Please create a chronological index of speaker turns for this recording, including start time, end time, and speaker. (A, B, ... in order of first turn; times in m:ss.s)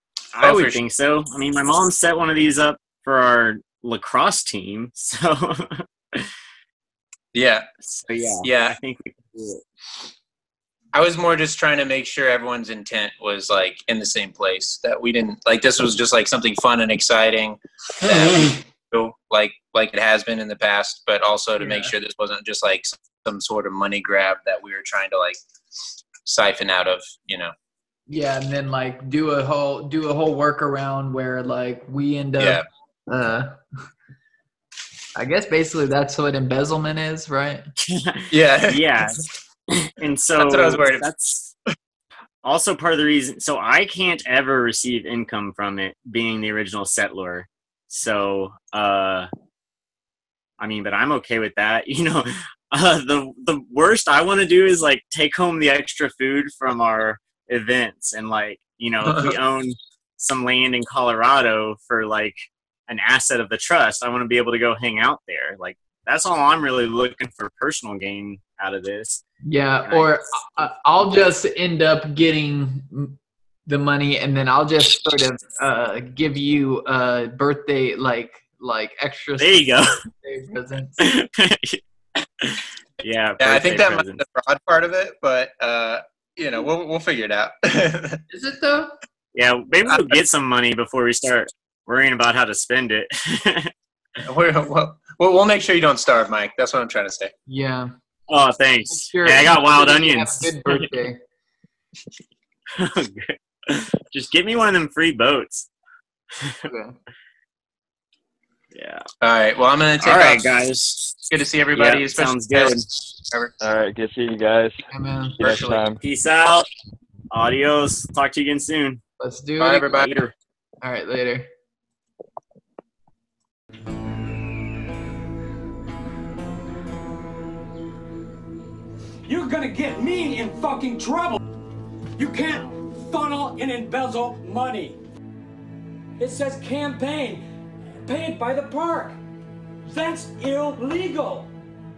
0:00.3-0:06.3 A
0:00.4-0:00.8 B
0:07.3-0:07.6 B
0:07.9-0:09.6 A
0:08.4-0:08.8 B
0:10.9-0:25.4 B
0:21.6-0:21.9 C
0:26.2-0:27.5 B
0:28.1-0:33.6 C
0:32.4-0:32.6 B
0:35.2-0:37.6 C
0:37.8-0:41.5 A
0:38.3-0:39.2 B
0:40.4-0:41.1 B
0:42.4-0:49.3 A
0:50.6-1:09.2 A
1:09.4-1:21.1 C
1:09.8-1:10.1 A
1:19.4-1:20.0 A
1:21.0-1:24.2 A
1:23.4-1:28.2 B
1:28.3-1:28.9 C
1:29.3-1:33.7 A
1:34.2-1:37.3 B
1:37.5-1:37.9 C
1:38.3-1:40.9 A
1:38.9-1:41.2 C
1:42.7-1:45.7 A
1:46.3-1:46.6 A
1:46.6-1:47.0 C
1:48.7-1:49.0 A
1:49.2-1:50.5 B
1:50.0-1:51.2 A
1:51.3-1:53.5 B
1:51.7-1:52.9 A
1:53.6-1:54.9 D
1:54.9-1:55.4 C
1:55.4-1:56.0 D
1:55.4-1:55.8 B
1:56.0-1:56.7 A
1:57.3-1:59.0 A
1:59.2-2:00.0 C
1:59.6-2:00.1 B
1:59.9-2:00.3 A
2:00.8-2:01.5 C
2:09.2-2:11.4 E
2:12.2-2:15.0 E
2:16.2-2:17.4 E
2:18.0-2:19.2 E
2:19.9-2:21.5 E